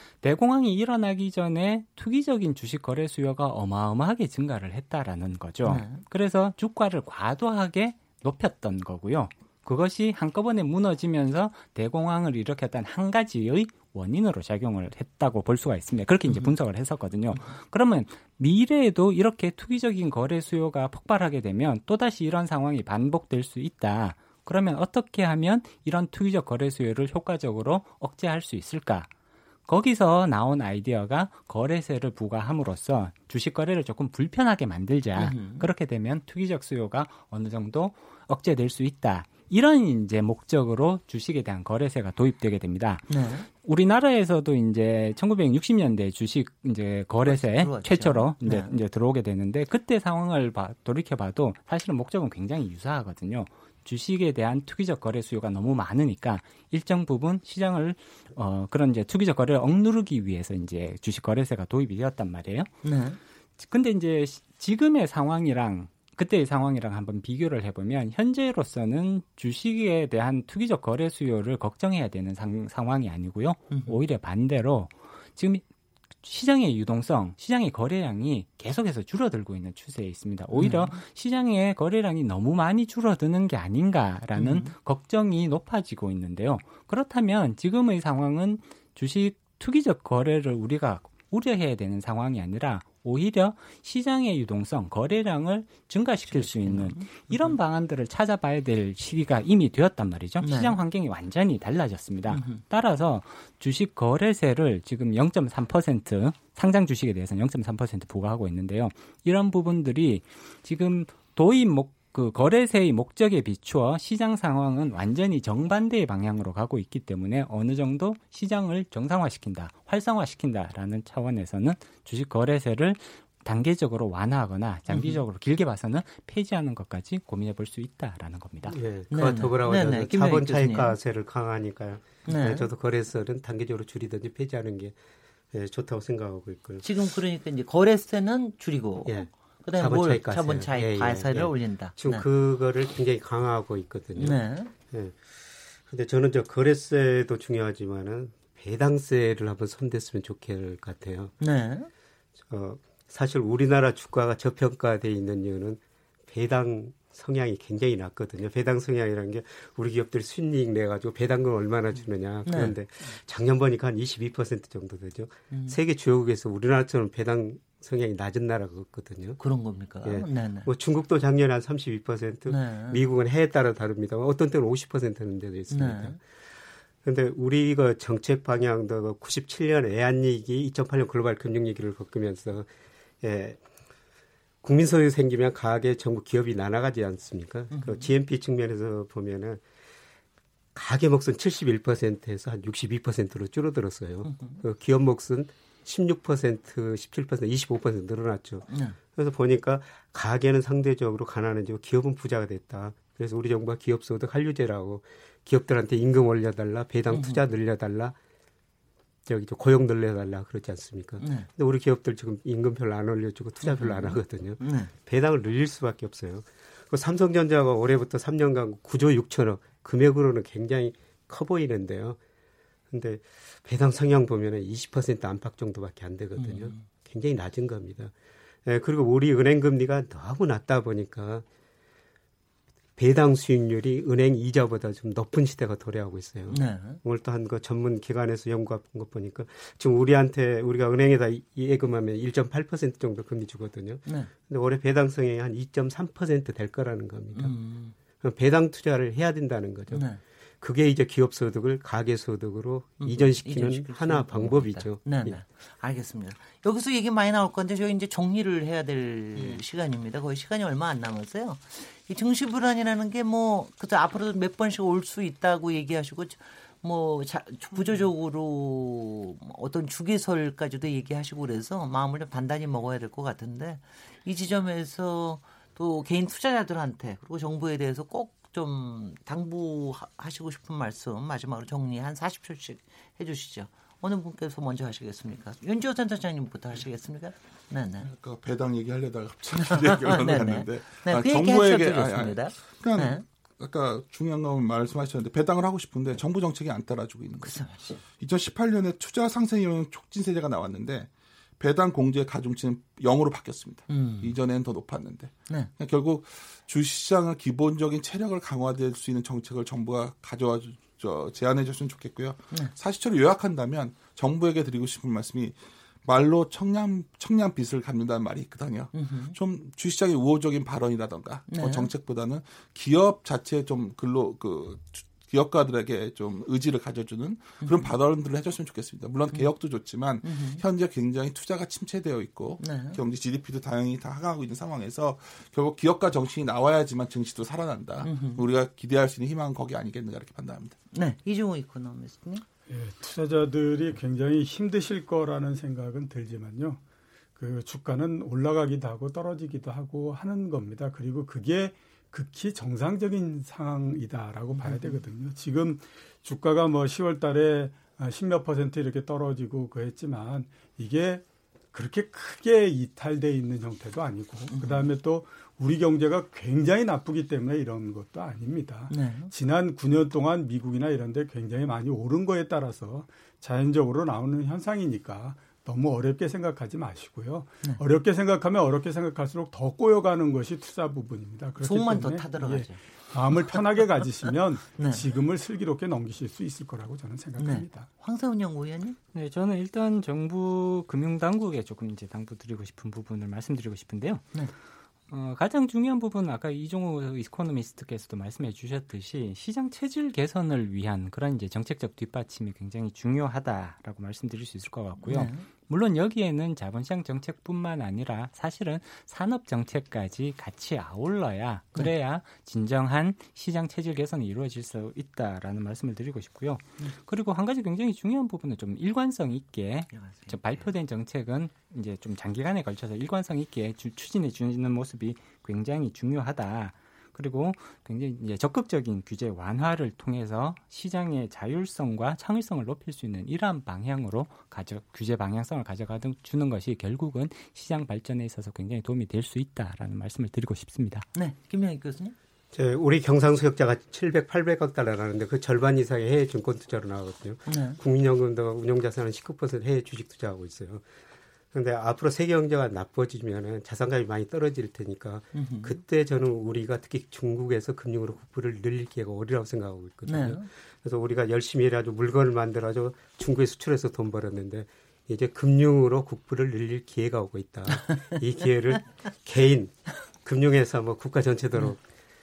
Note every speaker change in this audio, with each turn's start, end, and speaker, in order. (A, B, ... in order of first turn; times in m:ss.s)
0:00.2-0:29.1 A
0:05.6-0:06.0 B
0:29.7-1:02.7 A
0:35.2-0:35.7 B
0:43.1-0:43.5 B
0:47.2-0:48.7 B
1:02.8-1:03.2 B
1:03.6-1:15.6 A
1:13.7-1:14.0 B
1:16.2-2:08.8 A
1:20.5-1:21.0 B
1:24.4-1:24.7 B
1:36.3-1:37.5 B
1:40.4-1:40.8 B
1:42.3-1:42.6 B
2:04.9-2:05.2 B
2:08.7-2:15.0 C
2:09.1-2:11.0 B
2:12.2-2:12.7 B
2:15.5-2:16.8 C
2:16.8-2:22.2 B
2:19.0-2:25.2 C
2:24.2-2:24.7 B
2:25.8-2:31.3 C
2:31.4-2:31.9 B
2:32.5-2:49.4 C
2:42.4-2:42.8 B
2:45.5-2:45.8 B
2:49.4-2:50.7 B
2:50.0-2:56.2 C
2:52.5-2:53.0 B
2:55.7-2:56.2 B
2:57.0-3:02.7 C
3:03.2-3:03.6 C
3:04.6-3:09.6 C
3:07.7-3:08.0 B
3:10.7-3:28.2 C
3:14.2-3:14.6 B
3:18.7-3:19.0 B
3:27.1-3:27.4 B
3:29.3-3:42.2 C
3:31.2-3:31.5 B
3:33.6-3:34.9 B
3:42.9-3:48.1 C
3:46.4-3:46.8 B
3:48.6-3:51.4 C
3:53.0-4:07.5 C
3:56.5-3:57.0 B
4:04.0-4:04.3 B
4:07.4-4:07.9 B
4:08.2-4:10.1 C
4:09.9-4:10.2 B
4:10.6-4:15.4 C
4:13.0-4:48.1 B
4:48.0-5:01.1 D
4:49.6-4:53.2 B
4:57.4-4:58.0 B
5:01.6-5:40.8 D
5:03.9-5:04.3 B
5:05.5-5:05.7 B
5:18.9-5:19.4 B
5:21.5-5:21.9 B
5:27.6-5:27.9 B
5:30.2-5:30.6 B
5:32.6-5:33.0 B
5:38.0-5:38.4 B
5:40.9-5:42.4 B
5:42.7-5:46.8 E
5:47.4-6:27.9 E
5:54.5-5:55.0 B
6:04.5-6:04.9 B
6:08.9-6:09.3 B
6:21.6-6:22.8 B
6:24.8-6:25.1 B
6:27.4-6:29.0 B
6:29.1-6:34.2 A
6:35.1-7:21.1 A
6:45.0-6:45.4 B
6:59.9-7:00.5 B
7:21.1-7:22.1 B
7:22.5-7:30.8 C
7:27.5-7:27.8 B
7:31.5-7:51.8 C
7:35.3-7:35.8 B
7:40.1-7:40.5 B